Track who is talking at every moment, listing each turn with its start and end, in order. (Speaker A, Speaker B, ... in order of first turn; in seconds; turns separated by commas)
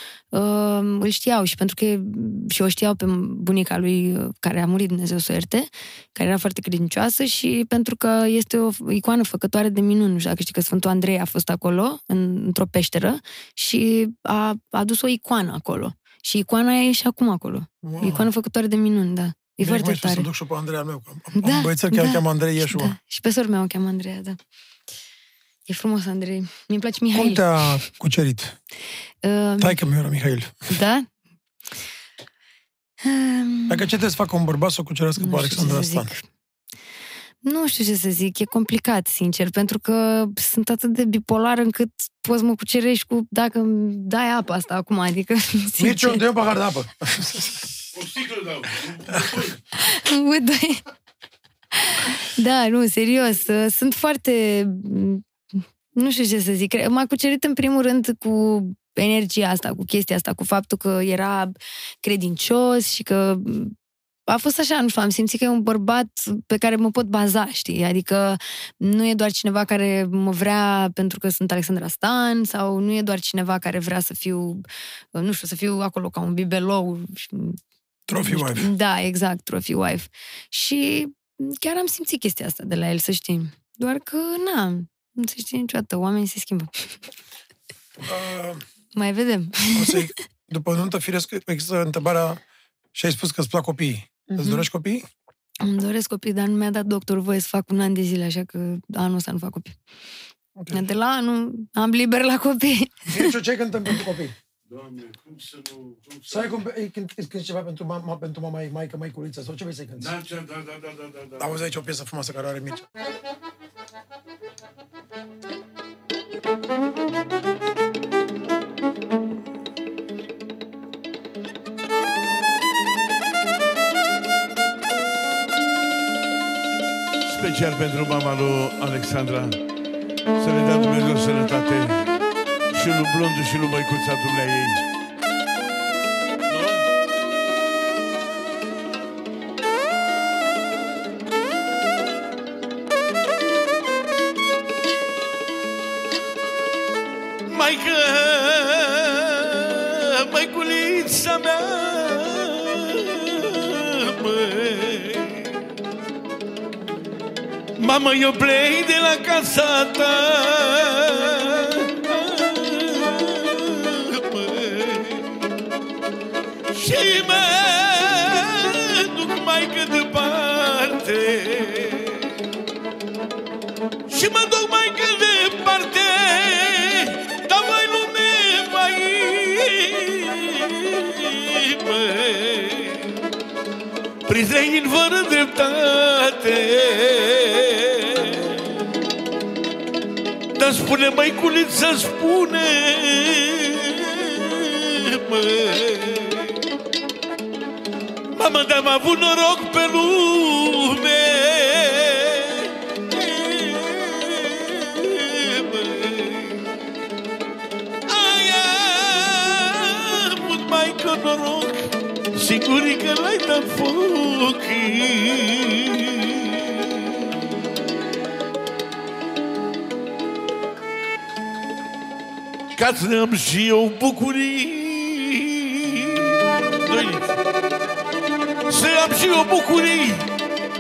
Speaker A: 0.3-20.3, Speaker B: 17.8-18.3, Speaker B: 19.6-22.9, Speaker A: 21.4-24.4, Speaker A: 25.7-27.9, Speaker B: 27.1-28.6, Speaker A: 29.2-29.8, Speaker B: 29.6-30.7, Speaker A: 30.7-31.1, Speaker A: 33.0-33.9, Speaker B: 33.7-36.1, Speaker A: 35.2-36.2, Speaker A: 37.4-46.2, Speaker B: 45.8-47.7, Speaker C: 48.0-49.5, Speaker B: 49.0-49.5, Speaker A: 49.7-50.8, Speaker A: 51.7-55.2, Speaker A: 56.0-63.8, Speaker A: 64.3-74.6, Speaker A: 75.2-77.6, Speaker B: 78.1-78.7, Speaker A: 78.2-86.9, Speaker B: 88.0-88.6, Speaker A: 88.9-90.2, Speaker B: 89.7-92.4, Speaker B: 93.0-95.1, Speaker A: 94.3-94.7, Speaker A: 95.6-99.8, Speaker B: 100.6-100.8, Speaker A: 100.7-103.3, Speaker B: 103.1-104.3, Speaker C: 104.7-106.2, Speaker B: 106.3-110.2, Speaker C: 110.0-111.4, Speaker B: 111.4-112.9, Speaker C: 127.3-129.6, Speaker C: 130.4-132.1, Speaker C: 132.7-134.8, Speaker C: 136.5-136.8, Speaker C: 147.5-155.6, Speaker C: 157.8-165.4, Speaker C: 166.7-172.3, Speaker C: 174.1-183.1, Speaker C: 184.2-188.7, Speaker C: 190.5-196.6, Speaker C: 198.3-206.6, Speaker C: 208.1-217.5, Speaker C: 222.8-227.4, Speaker C: 228.7-230.3